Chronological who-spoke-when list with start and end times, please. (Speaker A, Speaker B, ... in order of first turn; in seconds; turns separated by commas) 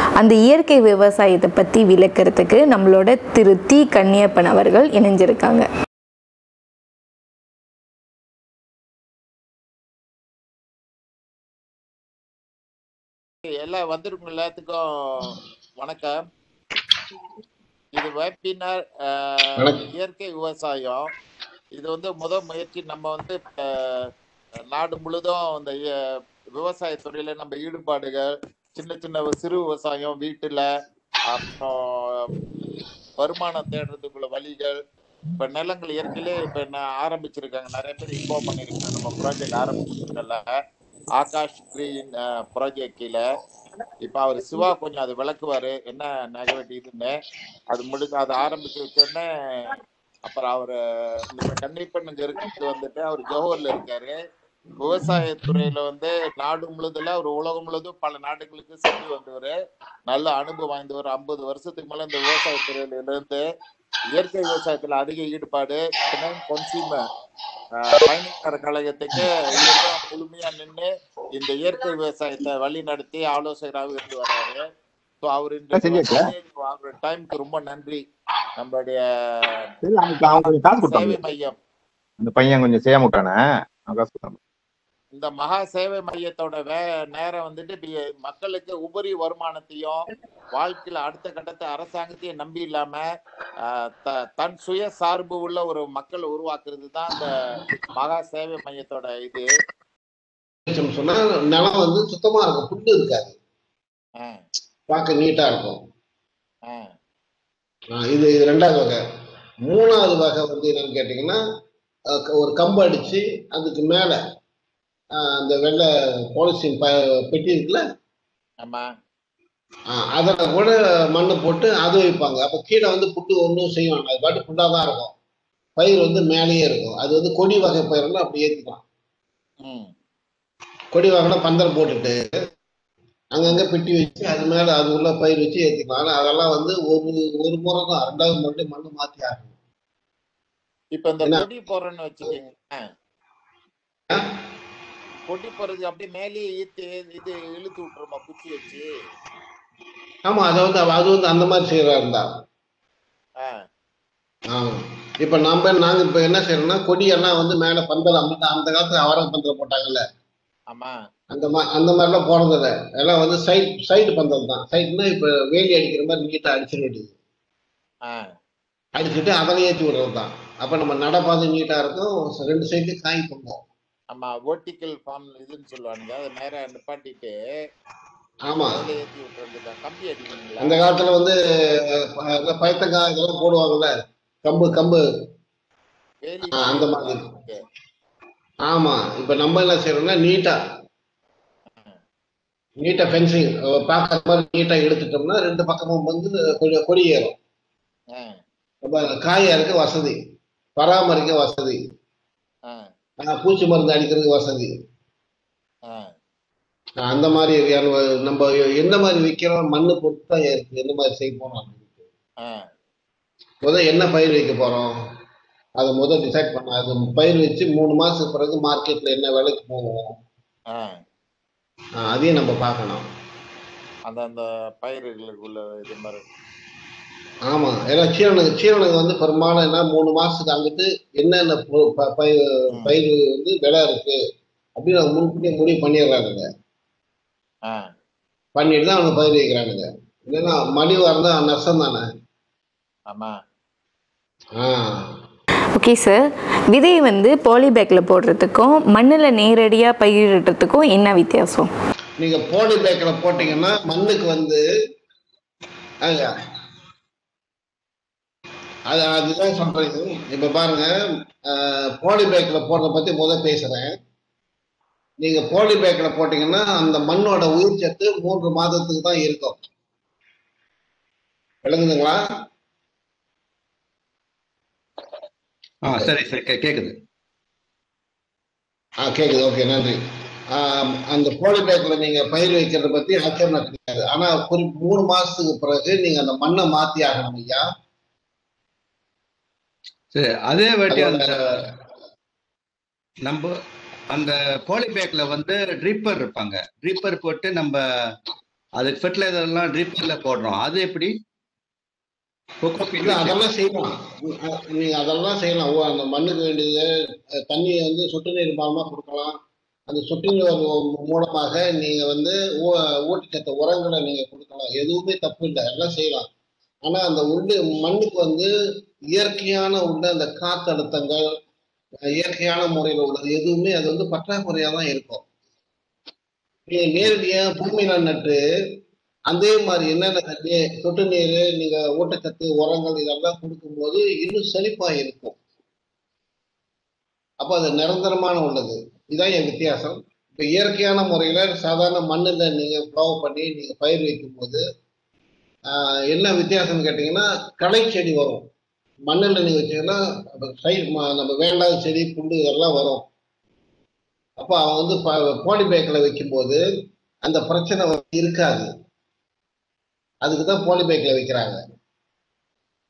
Speaker A: 0.2-5.7, Speaker B: 13.6-16.1, Speaker B: 17.9-21.0, Speaker C: 19.6-19.8, Speaker B: 21.7-23.6, Speaker B: 24.7-25.9, Speaker B: 26.6-30.6, Speaker B: 31.3-31.7, Speaker B: 33.2-34.7, Speaker B: 35.4-40.4, Speaker B: 41.2-43.2, Speaker B: 44.0-47.1, Speaker B: 47.7-50.7, Speaker B: 51.3-54.1, Speaker B: 54.8-59.5, Speaker B: 60.1-63.4, Speaker B: 64.1-67.0, Speaker B: 67.8-74.6, Speaker B: 75.2-78.0, Speaker D: 75.7-76.3, Speaker B: 78.6-79.5, Speaker D: 79.8-81.2, Speaker B: 80.4-81.5, Speaker D: 82.2-84.4, Speaker B: 85.1-93.0, Speaker B: 94.0-97.3, Speaker B: 97.8-99.5, Speaker C: 100.7-103.3, Speaker C: 104.9-105.8, Speaker C: 107.9-109.0, Speaker C: 109.6-111.4, Speaker C: 112.1-114.2, Speaker C: 115.2-117.8, Speaker C: 119.9-125.1, Speaker C: 125.8-128.8, Speaker B: 129.6-129.9, Speaker C: 130.9-132.3, Speaker C: 133.3-139.5, Speaker B: 140.9-142.8, Speaker B: 145.3-148.8, Speaker C: 150.2-152.3, Speaker C: 154.5-160.0, Speaker C: 161.3-167.1, Speaker C: 168.9-173.6, Speaker B: 174.1-177.3, Speaker C: 178.5-178.8, Speaker B: 178.6-180.9, Speaker C: 180.6-183.9, Speaker C: 184.4-185.0, Speaker B: 186.2-187.6, Speaker C: 186.6-187.2, Speaker C: 188.7-190.6, Speaker C: 192.8-197.4, Speaker C: 198.8-200.2, Speaker C: 200.8-201.8, Speaker C: 203.2-204.7, Speaker C: 207.0-212.0, Speaker C: 213.6-214.9, Speaker C: 215.8-220.1, Speaker C: 222.0-223.0, Speaker B: 224.1-226.2, Speaker C: 227.5-234.2, Speaker C: 234.8-236.5, Speaker C: 238.5-242.0, Speaker C: 244.6-245.1, Speaker A: 245.7-251.7, Speaker C: 252.2-254.6, Speaker C: 256.0-256.3, Speaker C: 258.9-260.9, Speaker C: 261.5-263.9, Speaker C: 265.2-269.6, Speaker C: 271.6-272.2, Speaker E: 275.8-276.9, Speaker C: 279.0-280.0, Speaker C: 280.5-287.6, Speaker E: 290.1-291.6, Speaker C: 290.9-291.3, Speaker E: 293.2-293.5, Speaker E: 294.1-297.8, Speaker E: 298.8-301.1, Speaker E: 302.6-303.4, Speaker C: 303.0-306.9, Speaker C: 307.5-309.4, Speaker C: 309.9-316.3, Speaker C: 316.8-318.5, Speaker C: 319.1-321.3, Speaker C: 322.1-325.2, Speaker C: 326.7-328.4, Speaker C: 329.3-335.4, Speaker C: 337.4-344.6, Speaker C: 345.7-348.4, Speaker C: 349.1-353.0, Speaker C: 354.4-356.6, Speaker C: 357.2-358.7, Speaker C: 360.2-361.6